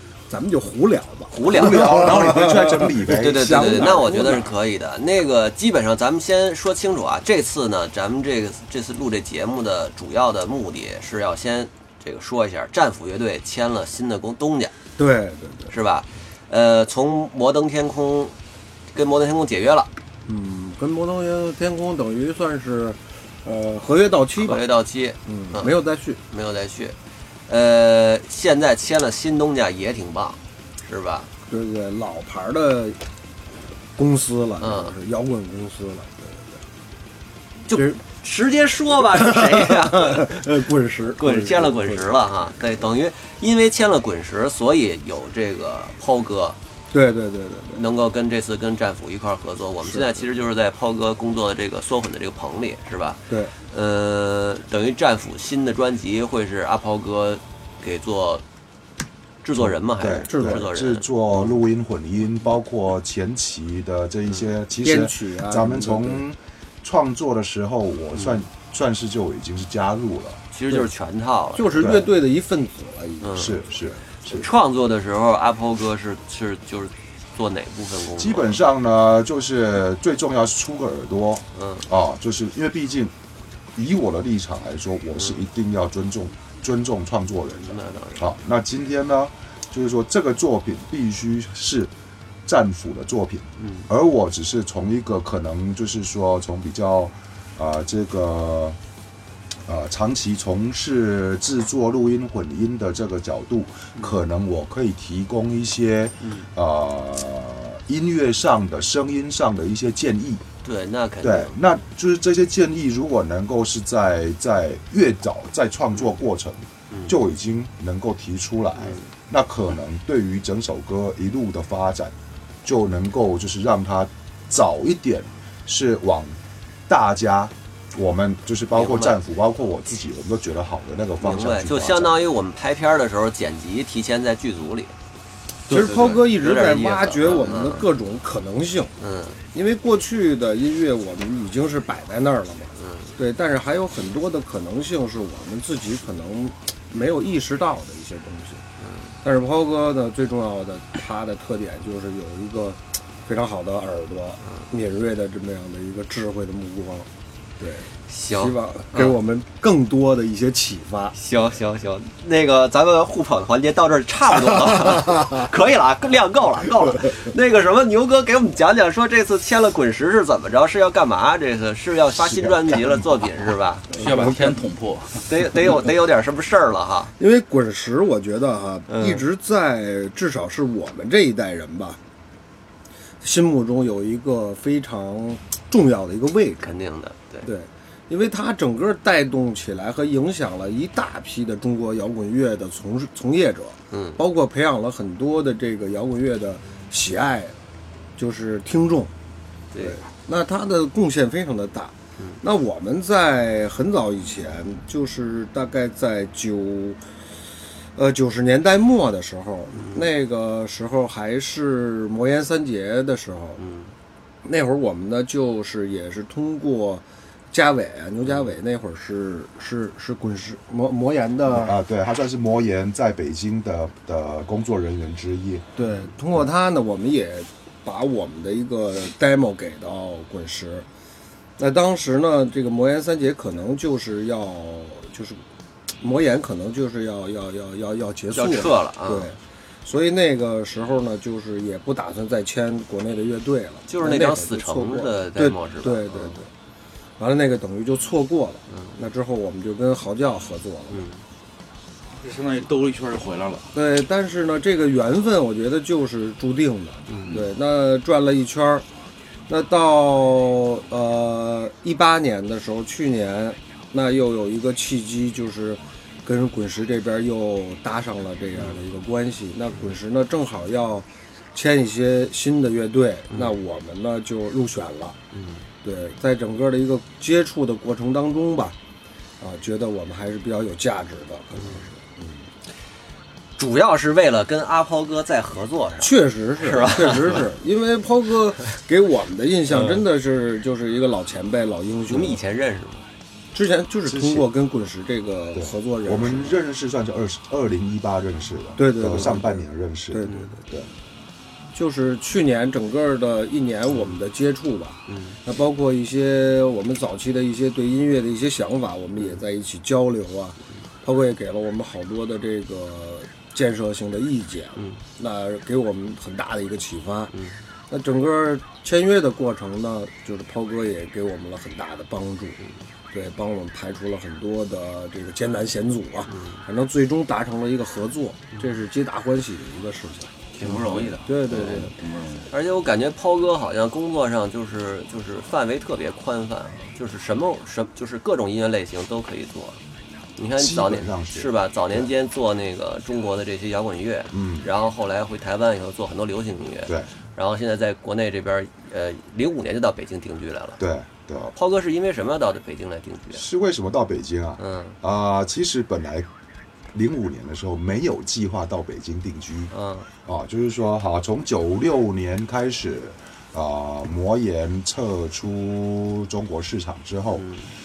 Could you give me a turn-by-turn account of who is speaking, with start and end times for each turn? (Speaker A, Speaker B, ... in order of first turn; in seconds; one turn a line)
Speaker A: 0.3-4.5
Speaker B: 1.3-14.7
Speaker C: 1.4-3.8
Speaker A: 15.0-15.7
Speaker B: 15.7-18.3
Speaker B: 18.9-19.9
Speaker A: 20.2-24.6
Speaker B: 24.4-25.8
Speaker A: 25.2-26.2
Speaker B: 26.3-26.9
Speaker B: 27.5-31.3
Speaker A: 31.5-33.0
Speaker A: 34.0-36.6
Speaker B: 34.6-34.9
Speaker B: 37.7-40.4
Speaker A: 37.7-38.0
Speaker A: 39.1-42.1
Speaker B: 41.2-46.6
Speaker A: 46.9-47.8
Speaker B: 47.7-58.4
Speaker A: 49.8-50.2
Speaker B: 59.4-61.6
Speaker C: 60.0-70.4
Speaker A: 60.2-60.6
Speaker A: 64.8-66.2
Speaker B: 68.1-68.4
Speaker B: 70.5-71.9
Speaker A: 71.5-73.6
Speaker C: 71.8-72.1
Speaker B: 73.2-73.5
Speaker C: 73.3-74.5
Speaker B: 74.2-78.6
Speaker C: 78.2-83.1
Speaker B: 81.5-81.8
Speaker C: 83.7-91.9
Speaker B: 85.2-85.4
Speaker B: 87.6-88.3
Speaker C: 92.5-98.8
Speaker B: 93.6-93.9
Speaker C: 99.7-110.4
Speaker B: 110.6-111.5
Speaker C: 111.2-132.2
Speaker B: 116.9-117.1
Speaker B: 118.8-119.1
Speaker B: 128.7-129.2
Speaker B: 131.2-134.9
Speaker A: 135.7-138.9
Speaker B: 135.7-137.8
Speaker B: 139.0-139.4
Speaker A: 139.5-148.6
Speaker B: 142.8-143.1
Speaker B: 148.8-149.1
Speaker A: 149.2-157.1
Speaker A: 157.6-161.2
Speaker B: 158.1-159.1
Speaker B: 161.1-174.4
Speaker C: 172.2-173.0
Speaker A: 173.9-174.5
Speaker D: 173.9-175.3
Speaker B: 175.2-177.1
Speaker A: 177.2-182.0
Speaker B: 178.9-179.2
Speaker A: 183.2-186.7
Speaker B: 186.6-187.5
Speaker A: 187.4-197.6
Speaker B: 193.9-194.2
Speaker A: 198.2-199.1
Speaker B: 199.7-200.0
Speaker A: 199.8-207.0
Speaker A: 207.9-213.6
Speaker B: 209.7-210.1
Speaker B: 213.6-213.9
Speaker A: 214.4-221.8
Speaker C: 221.5-225.7
Speaker A: 225.8-230.8
Speaker A: 231.6-235.4
Speaker A: 236.0-246.5
Speaker B: 238.3-239.3
Speaker B: 243.9-246.4
Speaker A: 247.2-251.1
Speaker B: 248.7-248.9
Speaker B: 250.9-251.2
Speaker D: 252.2-253.7
Speaker A: 253.7-258.8
Speaker B: 257.1-257.4
Speaker A: 259.5-275.1
Speaker B: 268.6-268.8
Speaker B: 275.3-275.6
Speaker A: 275.8-278.8
Speaker A: 279.4-282.4
Speaker B: 281.6-281.8
Speaker B: 283.6-287.5
Speaker A: 286.0-292.4
Speaker B: 289.7-290.0
Speaker B: 292.1-293.1
Speaker A: 293.5-296.6
Speaker C: 294.1-294.5
Speaker C: 295.5-300.9
Speaker A: 298.8-300.6
Speaker B: 300.2-300.5
Speaker A: 301.7-317.3
Speaker B: 303.9-304.2
Speaker B: 305.1-305.4
Speaker B: 309.2-309.4
Speaker B: 317.3-317.6
Speaker A: 317.9-322.6
Speaker A: 323.1-330.3
Speaker B: 326.3-326.6
Speaker D: 330.5-332.5
Speaker B: 330.6-331.1
Speaker A: 331.2-331.9
Speaker B: 332.5-339.8
Speaker B: 340.4-350.8
Speaker C: 340.6-342.1
Speaker C: 344.3-344.7
Speaker C: 350.8-351.5
Speaker B: 351.5-353.4
Speaker C: 353.3-356.3
Speaker B: 354.6-355.0
Speaker C: 356.9-359.7
Speaker B: 359.7-360.1
Speaker C: 360.2-367.4
Speaker B: 367.4-367.7